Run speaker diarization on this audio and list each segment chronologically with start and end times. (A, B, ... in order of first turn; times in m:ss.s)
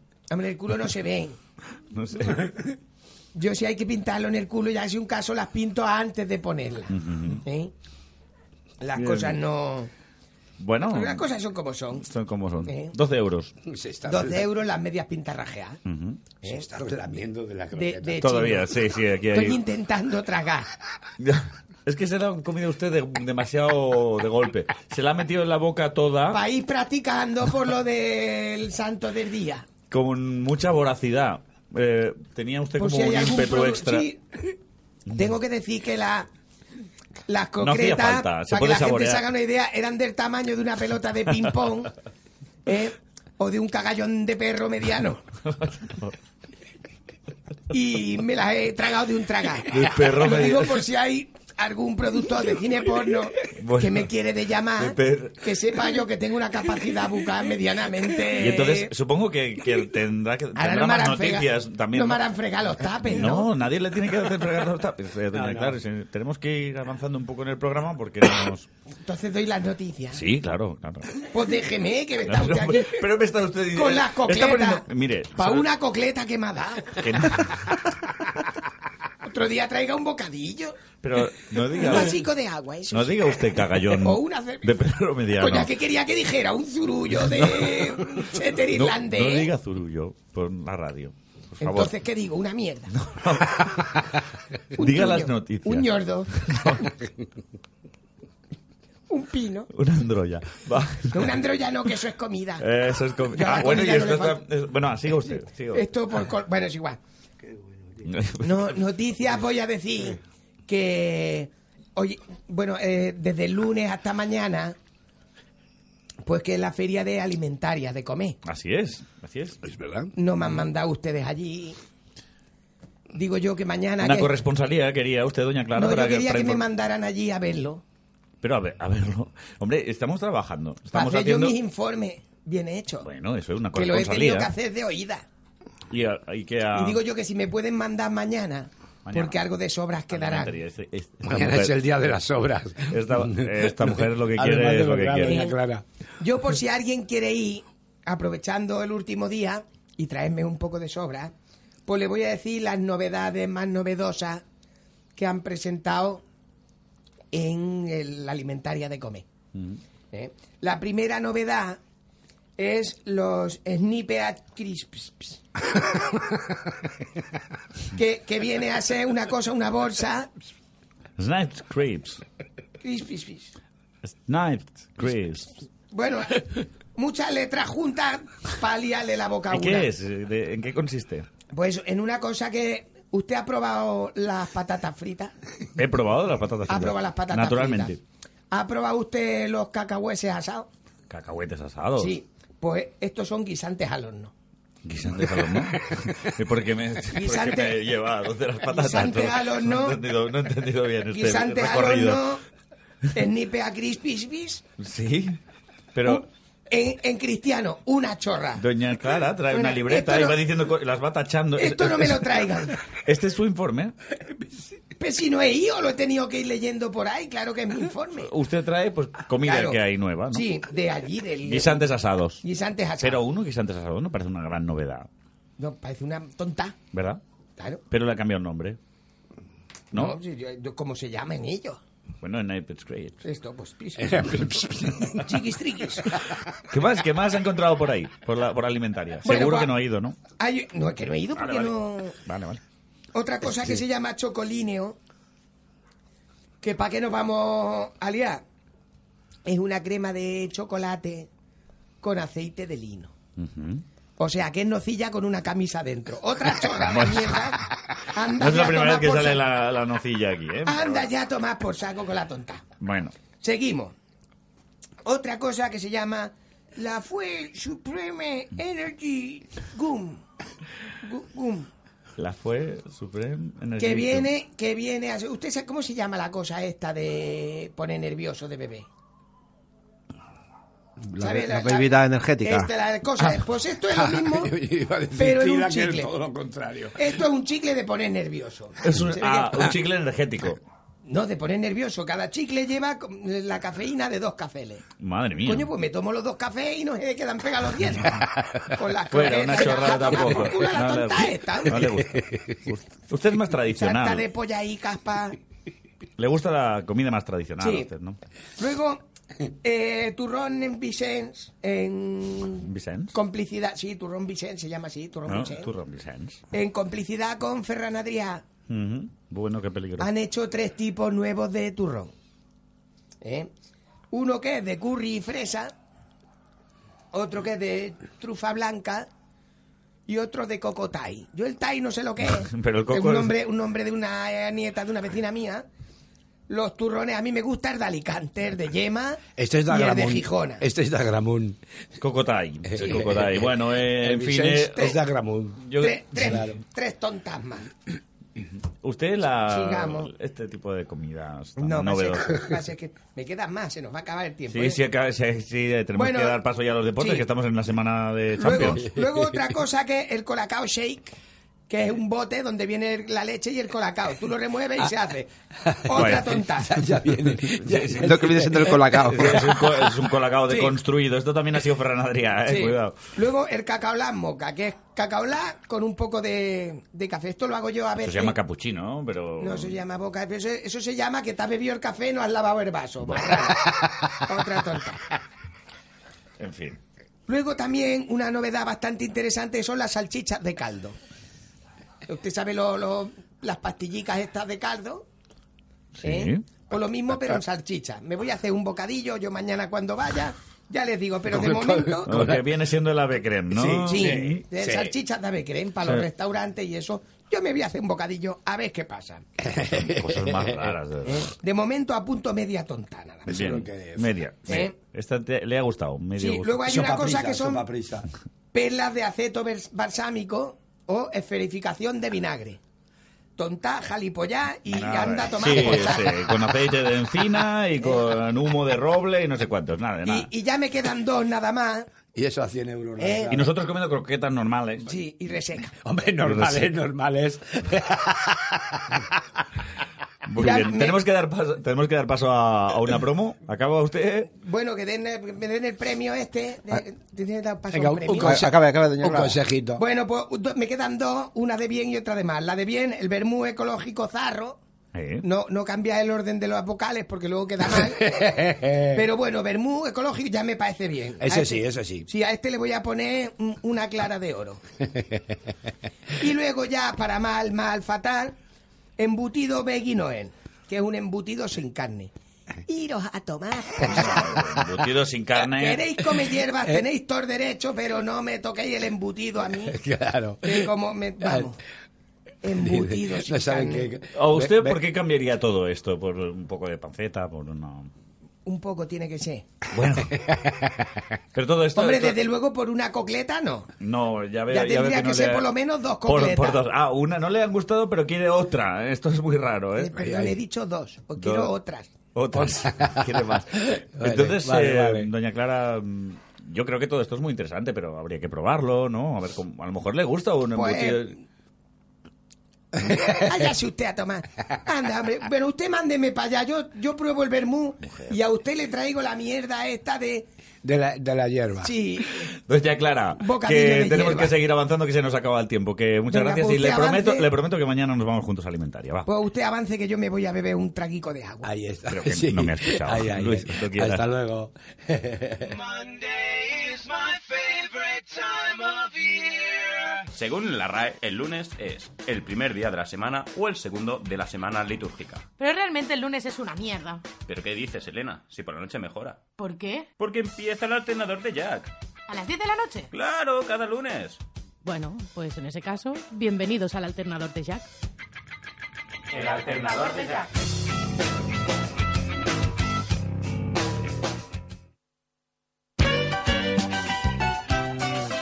0:00.3-0:01.4 A
0:01.9-0:02.5 B
0:03.4-0:07.7 A
0:06.9-0:07.4 B
0:08.8-0:09.9 A
0:08.9-0:09.4 B
0:10.6-0:11.3 B
0:10.9-0:12.1 A
0:12.0-0:13.5 B
0:12.7-0:12.9 A
0:13.7-0:14.4 C
0:14.1-0:15.8 A
0:15.8-0:16.2 B
0:16.4-0:16.7 A
0:16.4-0:18.2 C
0:17.7-0:18.8 A
0:18.2-0:19.6 B
0:19.3-0:20.7 A
0:21.2-0:26.4 B
0:26.3-0:29.7 A
0:29.9-0:34.1 B
0:32.8-0:34.5 A
0:35.1-0:36.3 A
0:37.3-0:41.9 A
0:37.6-0:39.3 B
0:42.7-0:45.2 A
0:45.4-0:46.1 B
0:47.7-0:58.9 A
0:49.7-0:50.8 B
0:53.6-0:54.1 B
0:54.8-0:55.5 B
0:58.4-1:02.3 B
1:00.6-1:03.5 A
1:03.0-1:08.7 B
1:05.3-1:05.8 C
1:09.0-1:10.2 A
1:10.1-1:11.2 B
1:11.2-1:13.1 A
1:12.2-1:15.7 B
1:13.7-1:17.4 A
1:17.0-1:17.9 B
1:19.2-1:20.8 A
1:21.0-1:22.2 B
1:21.7-1:24.8 A
1:22.9-1:25.7 B
1:25.4-1:29.5 A
1:27.2-1:27.9 B
1:28.7-1:32.0 B
1:31.6-1:32.9 A
1:32.9-1:33.9 B
1:34.8-1:36.8 A
1:34.8-1:36.9 B
1:39.1-1:39.7 A
1:39.7-1:41.4 B
1:41.1-1:42.7 A
1:42.6-1:45.9 B
1:43.3-1:44.4 A
1:45.7-1:47.0 A
1:48.0-1:48.8 B
1:48.4-1:54.8 A
1:56.2-1:58.4 A
1:58.4-1:59.6 B
1:59.6-2:00.1 C
2:00.2-2:01.8 A
2:03.1-2:04.3 A
2:04.0-2:06.7 B
2:05.7-2:07.8 A
2:08.4-2:11.6 B
2:10.9-2:13.1 A
2:13.0-2:14.5 B
2:13.7-2:15.3 A
2:15.9-2:17.0 B
2:16.7-2:20.6 A
2:19.1-2:19.4 B
2:20.1-2:21.8 B
2:21.2-2:25.8 C
2:22.9-2:25.4 B
2:25.2-2:25.6 A
2:26.2-2:31.3 A
2:31.9-2:34.4 A
2:35.2-2:36.2 A
2:37.3-2:39.3 A
2:40.1-2:41.8 A
2:42.6-2:45.4 A
2:47.9-2:50.3 A
2:51.2-2:52.2 B
2:52.8-2:53.6 A
2:54.0-2:55.6 B
2:55.9-2:59.9 A
2:59.5-3:01.3 B
3:01.5-3:05.3 A
3:05.8-3:08.0 B
3:06.7-3:08.0 A
3:08.5-3:10.7 A
3:11.1-3:12.2 B
3:12.0-3:14.3 A
3:14.8-3:22.3 B
3:17.1-3:17.9 A
3:18.6-3:20.0 A
3:21.1-3:22.4 A
3:23.2-3:24.6 A
3:24.8-3:25.4 B
3:26.0-3:26.3 B
3:26.1-3:28.6 A
3:28.6-3:32.3 B
3:29.5-3:30.4 A
3:31.6-3:32.8 A
3:33.0-3:33.9 B
3:35.0-3:38.3 A
3:38.2-3:40.5 B
3:39.4-3:39.8 A
3:40.3-3:41.8 A
3:41.4-3:42.4 B
3:42.4-3:43.2 A
3:43.0-3:45.1 B
3:45.6-3:46.8 A
3:46.9-3:47.2 B
3:47.9-3:48.8 B
3:49.9-3:51.8 A
3:52.2-3:53.2 B
3:53.2-3:56.2 A
3:54.0-3:55.0 C
3:56.7-4:00.2 B
3:59.2-3:59.7 A
4:00.4-4:02.2 A
4:01.3-4:02.6 B
4:03.1-4:05.0 A
4:06.6-4:08.4 A
4:09.5-4:11.3 A
4:12.0-4:13.1 A
4:13.4-4:13.8 B
4:14.2-4:19.4 A
4:16.8-4:17.5 B
4:18.3-4:21.1 B
4:20.7-4:22.6 A
4:22.8-4:23.1 B
4:23.4-4:23.9 A
4:25.0-4:30.2 A
4:31.0-4:31.7 A
4:32.2-4:34.3 B
4:33.8-4:38.9 A
4:41.1-4:42.7 D
4:41.2-4:44.5 A
4:43.9-4:47.0 C
4:45.2-4:46.1 A
4:47.0-4:49.7 A
4:48.8-4:50.6 B
4:51.1-4:54.8 A
4:55.0-4:55.7 B
4:55.4-5:02.0 A
4:59.1-5:04.3 B
5:02.2-5:02.5 C
5:03.7-5:05.4 A
5:06.2-5:08.2 B
5:07.6-5:07.9 A
5:08.6-5:09.0 A
5:09.6-5:15.7 A
5:12.6-5:13.2 B
5:15.3-5:16.4 B
5:16.5-5:18.4 A
5:18.7-5:20.1 B
5:20.0-5:22.1 A
5:23.2-5:23.5 A
5:24.1-5:25.7 A
5:27.1-5:29.1 A
5:30.1-5:35.7 A
5:32.2-5:33.4 B
5:36.5-5:40.6 A
5:39.4-5:41.6 C
5:42.0-5:45.0 B
5:42.7-5:45.6 C
5:45.6-5:46.4 B
5:45.7-5:47.7 A
5:46.2-5:46.6 C
5:48.8-5:52.5 B
5:49.5-5:50.1 A
5:51.6-5:54.8 A
5:54.5-5:58.8 B
5:56.0-5:56.4 A
5:57.0-5:57.3 A
5:58.4-6:01.1 A
6:01.7-6:05.3 A
6:05.8-6:06.9 A
6:05.9-6:06.3 B
6:06.6-6:08.7 C
6:07.7-6:08.0 B
6:08.0-6:09.5 D
6:08.9-6:13.0 B
6:12.4-6:18.4 A
6:18.0-6:19.8 B
6:19.4-6:25.0 A
6:26.4-6:26.8 B
6:27.3-6:31.0 A
6:32.1-6:35.1 A
6:36.0-6:36.5 B
6:36.0-6:42.2 A
6:41.3-6:42.4 C
6:42.1-6:44.4 B
6:43.5-6:44.9 C
6:43.8-6:49.2 A
6:45.8-6:46.1 B
6:49.4-6:50.6 C
6:49.7-6:51.3 B
6:51.1-6:53.5 A
6:53.3-6:56.7 B
6:53.3-6:54.2 C
6:54.5-6:54.8 A
6:56.2-6:57.7 A
6:56.6-6:58.1 C
6:58.5-7:02.6 A
7:03.4-7:06.3 A
7:04.7-7:10.3 B
7:10.0-7:11.9 A
7:12.1-7:13.4 C
7:13.0-7:13.4 A
7:13.3-7:14.9 B
7:14.8-7:15.8 A
7:15.7-7:19.0 C
7:16.2-7:16.7 B
7:20.3-7:24.3 B
7:20.4-7:21.0 A
7:24.3-7:28.4 A
7:27.7-7:29.8 C
7:28.2-7:29.4 D
7:29.8-7:34.6 A
7:34.9-7:35.3 B
7:35.2-7:44.6 A
7:38.2-7:38.9 C
7:41.2-7:42.1 C
7:46.2-7:48.4 A
7:49.0-7:52.1 A
7:52.7-7:54.4 A
7:53.8-7:55.9 B
7:55.4-7:59.8 A
7:59.7-8:00.6 C
8:00.4-8:01.6 A
8:02.4-8:03.9 A
8:02.6-8:04.8 C
8:04.1-8:07.9 B
8:08.4-8:09.4 A
8:09.7-8:10.2 B
8:10.2-8:10.8 C
8:11.4-8:12.2 B
8:11.7-8:13.7 A
8:13.8-8:15.5 B
8:14.5-8:16.6 A
8:16.0-8:20.0 B
8:19.8-8:21.9 A
8:20.0-8:20.3 C
8:21.2-8:21.6 B
8:22.2-8:31.2 B
8:22.4-8:23.1 C
8:24.0-8:25.1 C
8:30.5-8:31.2 A
8:32.8-8:40.3 A
8:37.8-8:38.2 B
8:40.6-8:41.7 C
8:41.6-8:42.3 A
8:42.5-8:49.1 B
8:43.2-8:44.4 A
8:46.1-8:47.3 A
8:49.1-8:51.5 A
8:51.4-8:55.6 C
8:51.9-8:54.0 B
9:00.1-9:05.3 E
9:05.4-9:07.1 F
9:07.2-9:09.3 E
9:09.4-9:09.9 F
9:10.0-9:11.7 E
9:12.1-9:12.9 F
9:12.9-9:14.2 E
9:14.6-9:17.7 F
9:19.1-9:20.3 F